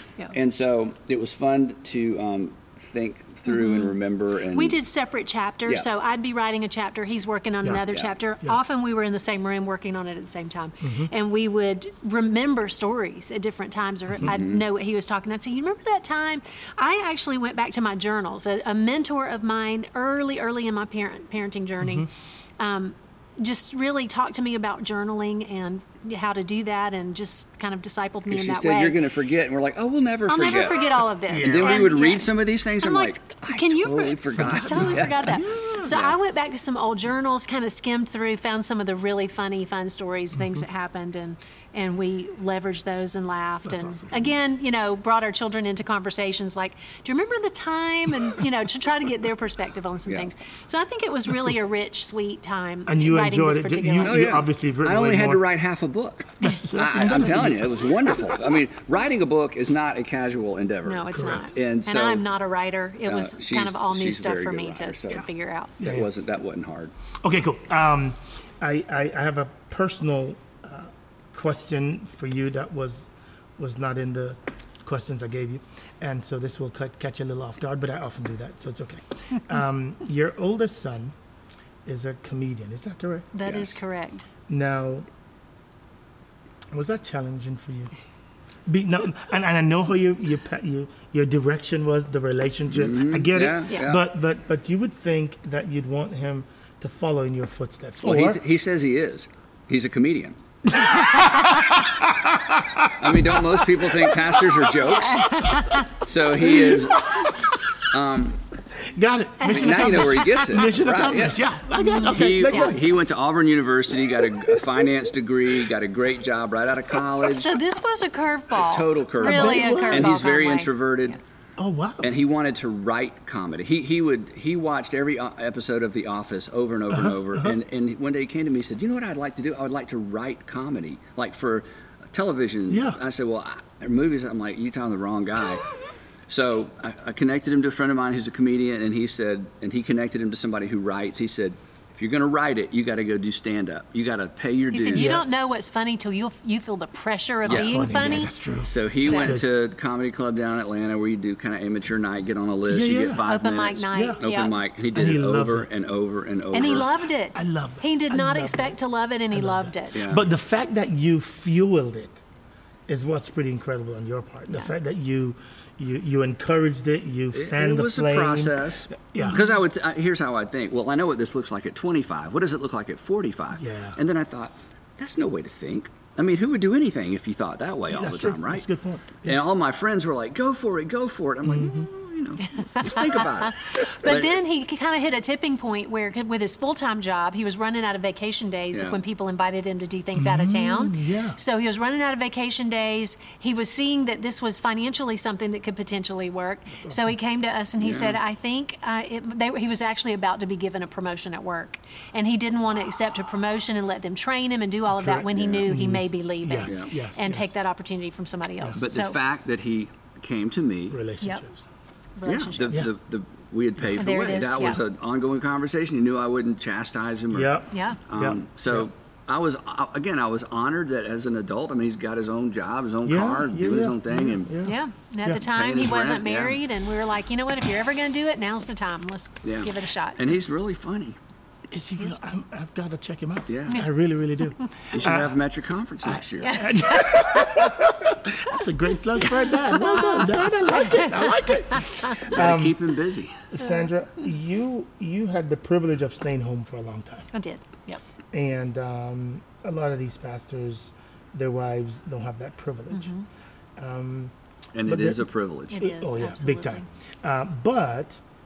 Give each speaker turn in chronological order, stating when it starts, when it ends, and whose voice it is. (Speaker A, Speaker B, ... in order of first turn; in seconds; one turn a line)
Speaker A: 0.3-4.8
Speaker B: 3.5-4.0
Speaker B: 4.5-29.0
Speaker C: 10.8-11.1
Speaker A: 14.2-14.6
Speaker C: 21.8-22.1
Speaker A: 28.3-36.1
Speaker B: 30.3-54.3
Speaker C: 31.3-31.9
Speaker C: 34.4-35.9
Speaker C: 43.7-44.3
Speaker C: 52.9-55.4
Speaker A: 54.0-62.2
Speaker C: 56.4-57.9
Speaker B: 60.9-65.7
Speaker C: 61.1-61.5
Speaker A: 63.1-65.2
Speaker C: 65.8-66.1
Speaker A: 65.8-66.9
Speaker C: 67.2-81.2
Speaker C: 81.8-83.3
Speaker B: 83.3-84.3
Speaker A: 83.5-83.8
Speaker C: 84.5-85.1
Speaker C: 86.7-87.9
Speaker C: 88.7-98.4
Speaker A: 92.7-94.0
Speaker A: 98.0-100.4
Speaker C: 100.7-104.8
Speaker A: 103.0-107.3
Speaker B: 105.0-106.0
Speaker C: 106.4-107.5
Speaker A: 107.9-108.4
Speaker C: 108.8-112.8
Speaker B: 109.4-110.4
Speaker A: 109.5-111.4
Speaker B: 111.8-112.8
Speaker A: 112.0-117.5
Speaker B: 117.2-121.2
Speaker A: 118.6-121.2
Speaker C: 119.2-120.1
Speaker C: 121.6-122.1
Speaker A: 122.0-135.8
Speaker C: 132.7-133.0
Speaker A: 136.3-145.2
Speaker B: 144.7-148.3
Speaker C: 144.9-145.2
Speaker C: 147.5-149.4
Speaker A: 147.5-156.9
Speaker B: 149.0-149.4
Speaker C: 152.7-153.2
Speaker B: 153.2-154.5
Speaker C: 153.9-154.2
Speaker C: 154.9-155.7
Speaker B: 156.5-160.0
Speaker C: 156.6-156.8
Speaker C: 157.3-158.8
Speaker C: 159.3-162.2
Speaker A: 159.9-160.2
Speaker C: 162.9-169.4
Speaker A: 167.3-184.4
Speaker B: 169.2-169.6
Speaker C: 173.5-174.0
Speaker C: 177.9-179.4
Speaker C: 181.4-181.9
Speaker B: 182.4-209.2
Speaker A: 188.7-189.0
Speaker C: 190.2-191.4
Speaker C: 196.8-197.2
Speaker A: 197.8-198.2
Speaker C: 204.9-207.5
Speaker A: 205.3-205.7
Speaker A: 208.8-211.0
Speaker C: 210.9-211.6
Speaker B: 212.2-212.8
Speaker A: 212.3-224.5
Speaker B: 214.0-214.8
Speaker C: 217.3-218.8
Speaker B: 217.7-218.0
Speaker C: 223.1-225.4
Speaker B: 224.6-230.2
Speaker A: 225.4-226.6
Speaker A: 229.4-231.2
Speaker C: 231.7-235.3
Speaker A: 233.5-233.8
Speaker A: 234.9-236.6
Speaker C: 236.1-242.8
Speaker B: 236.4-237.6
Speaker B: 239.7-241.1
Speaker B: 241.8-242.1
Speaker A: 242.2-243.4
Speaker C: 243.5-247.3
Speaker B: 247.3-248.0
Speaker C: 248.3-253.1
Speaker B: 252.9-253.2
Speaker C: 253.8-254.3
Speaker A: 254.7-255.9
Speaker C: 254.8-258.2
Speaker B: 255.7-256.9